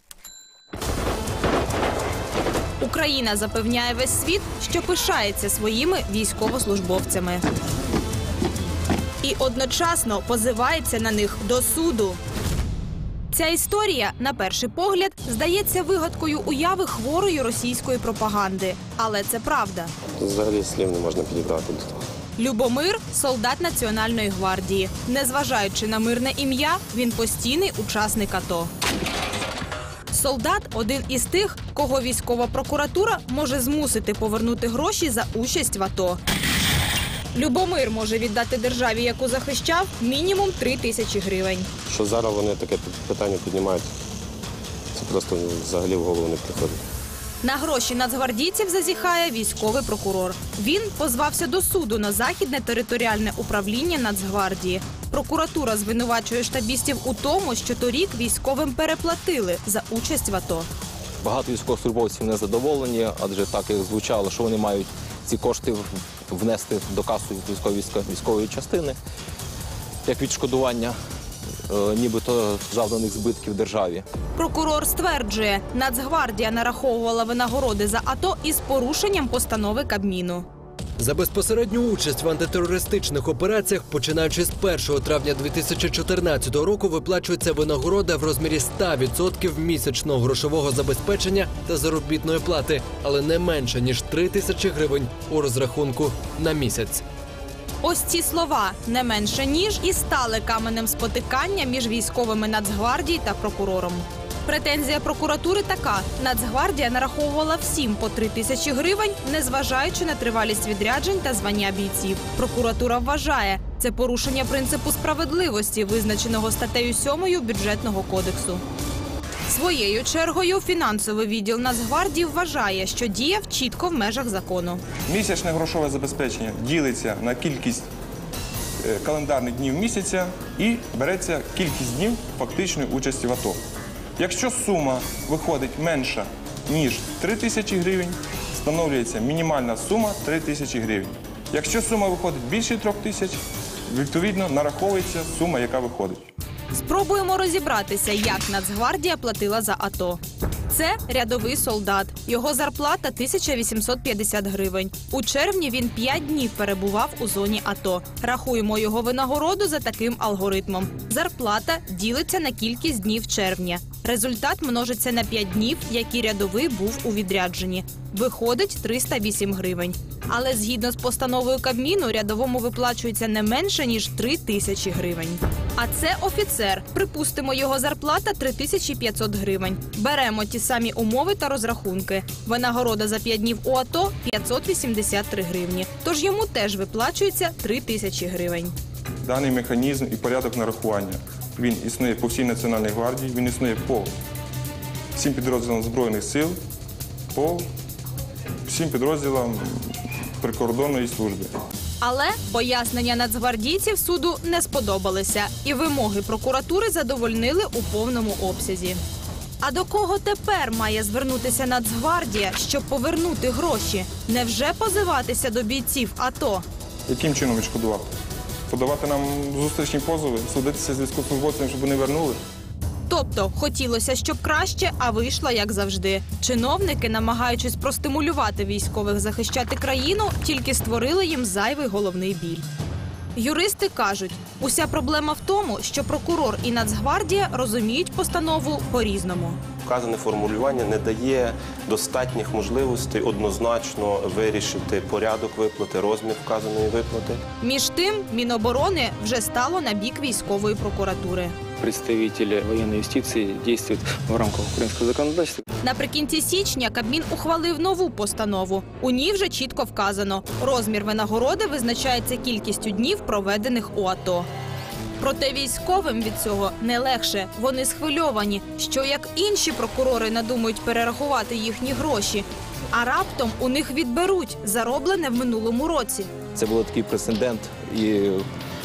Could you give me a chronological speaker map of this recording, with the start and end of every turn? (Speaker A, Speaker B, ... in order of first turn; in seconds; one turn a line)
Speaker A: 2.8-7.4
Speaker A: 9.2-12.2
Speaker A: 13.3-19.9
Speaker B: 20.2-22.0
Speaker A: 22.4-28.7
Speaker A: 30.1-36.2
Speaker A: 37.3-41.7
Speaker B: 41.9-43.9
Speaker B: 44.9-46.8
Speaker A: 47.4-60.7
Speaker C: 61.2-69.0
Speaker C: 70.1-71.0
Speaker C: 71.7-74.0
Speaker A: 74.3-80.5
Speaker D: 81.0-97.0
Speaker A: 97.8-118.6
Speaker A: 119.5-124.8
Speaker E: 125.1-127.9
Speaker E: 128.8-133.6
Speaker E: 134.2-146.2
Speaker A: 146.7-188.7
Speaker E: 189.2-194.1
Speaker E: 195.2-196.6
Speaker E: 197.3-197.7
Speaker E: 198.7-201.5
Speaker A: 202.0-209.0
Speaker A: 209.6-216.7
Speaker E: 217.1-218.1
Speaker E: 218.7-222.4
Speaker A: 223.1-232.7
Speaker A: 233.3-239.6
Speaker B: 239.8-247.4
Speaker A: 247.6-251.6
Speaker F: 251.8-255.6
Speaker A: 255.8-264.5
Speaker A: 265.2-276.3
Speaker C: 276.5-278.4